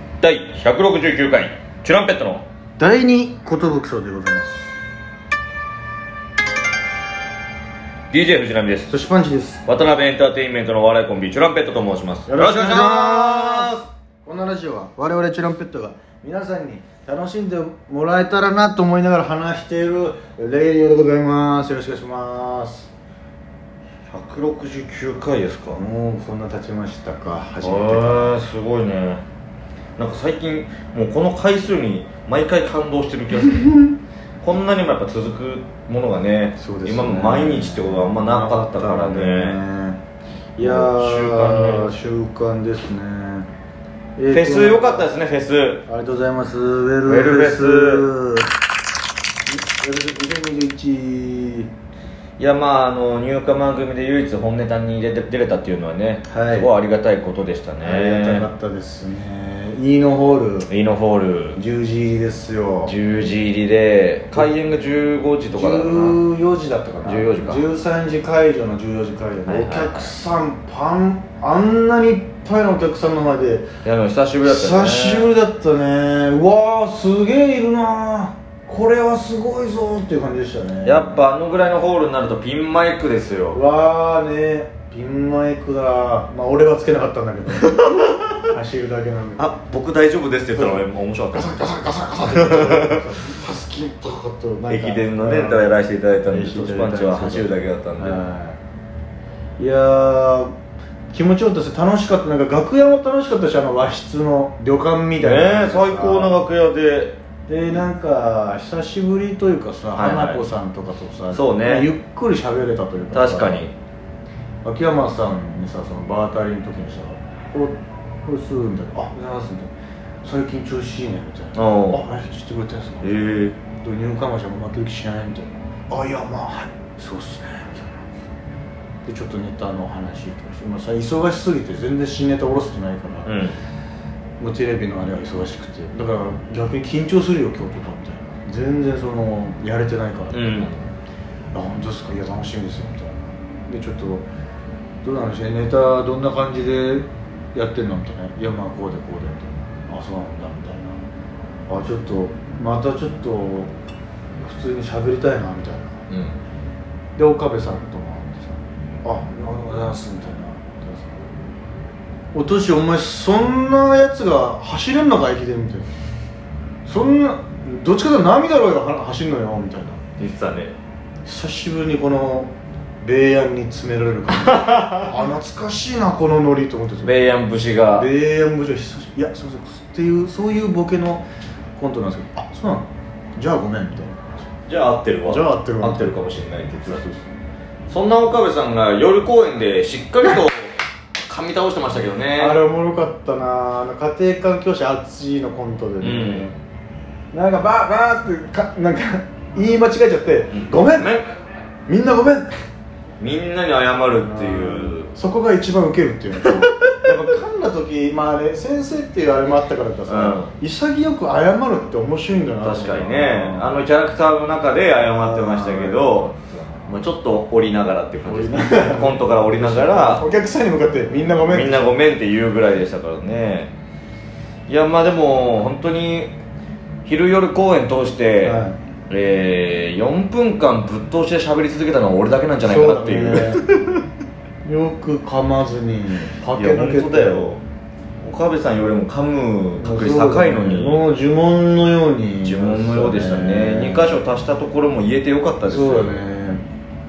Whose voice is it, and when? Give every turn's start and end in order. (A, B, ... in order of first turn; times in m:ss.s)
0:00.2-0:02.4 A
0:02.8-0:04.7 B
0:08.1-0:08.9 A
0:08.9-0:09.6 B
0:09.7-0:13.9 A
0:12.3-0:22.9 B
0:24.1-0:25.8 A
0:25.7-0:28.4 B
0:27.6-0:29.2 A
0:30.0-0:33.7 A
0:34.4-0:39.6 A
0:36.6-0:40.0 B
0:40.6-0:43.5 B
0:40.6-0:42.1 A
0:44.2-0:45.1 B
0:44.3-0:45.8 A
0:45.9-0:48.5 B
0:47.1-0:48.1 A
0:49.5-0:51.7 B
0:52.4-0:58.5 A
0:56.3-0:56.7 B
0:57.8-1:00.7 B
1:00.7-1:01.6 A
1:01.6-1:03.0 B
1:02.8-1:06.2 A
1:05.5-1:13.7 B
1:07.0-1:07.6 A
1:09.5-1:10.1 A
1:13.8-1:15.3 A
1:14.4-1:21.2 B
1:20.8-1:23.6 A
1:23.5-1:27.9 B
1:27.6-1:28.4 A
1:28.5-1:29.5 B
1:29.4-1:33.3 A
1:30.6-1:35.8 B
1:34.7-1:38.2 A
1:36.3-1:38.6 B
1:39.6-1:40.5 B
1:41.1-1:46.4 B
1:45.2-1:47.2 A
1:47.5-1:53.6 B
1:50.0-1:50.4 A
1:51.3-1:51.9 A
1:53.1-1:53.7 A
1:54.6-2:03.1 B
2:01.6-2:02.0 A
2:03.0-2:03.6 A
2:03.8-2:08.1 B
2:09.1-2:13.3 B
2:13.3-2:13.6 A
2:14.4-2:20.7 B
2:20.3-2:20.8 A
2:21.5-2:24.3 B
2:25.0-2:31.0 B
2:31.7-2:33.7 B
2:34.4-2:36.1 B
2:36.1-2:36.4 A
2:37.2-2:41.3 B
2:42.3-2:45.9 B
2:46.9-2:50.0 B
2:50.2-2:50.8 A
2:51.2-2:57.2 B
2:54.4-2:55.2 A
2:57.0-2:58.1 A
2:58.0-3:01.3 B
3:01.8-3:04.4 B
3:04.7-3:07.0 A
3:05.2-3:06.2 B
3:06.8-3:07.3 B
3:07.9-3:12.6 A
3:12.4-3:16.5 B
3:16.0-3:16.5 A
3:17.3-3:21.2 B
3:20.5-3:21.3 A
3:21.9-3:22.5 B
3:23.2-3:25.1 A
3:24.2-3:33.8 B
3:26.5-3:27.0 A
3:30.1-3:30.5 A
3:32.6-3:40.2 A
3:35.1-3:36.9 B
3:38.2-3:42.0 B
3:41.5-3:43.7 A
3:44.7-3:46.3 A
3:47.1-3:48.6 A
3:48.4-3:48.8 B
3:49.1-3:53.8 A
3:52.6-3:53.6 B
3:54.6-3:57.5 B
3:56.6-3:57.6 A
3:58.2-4:01.0 A
3:59.8-4:04.2 B
4:02.4-4:06.2 A
4:05.6-4:06.6 B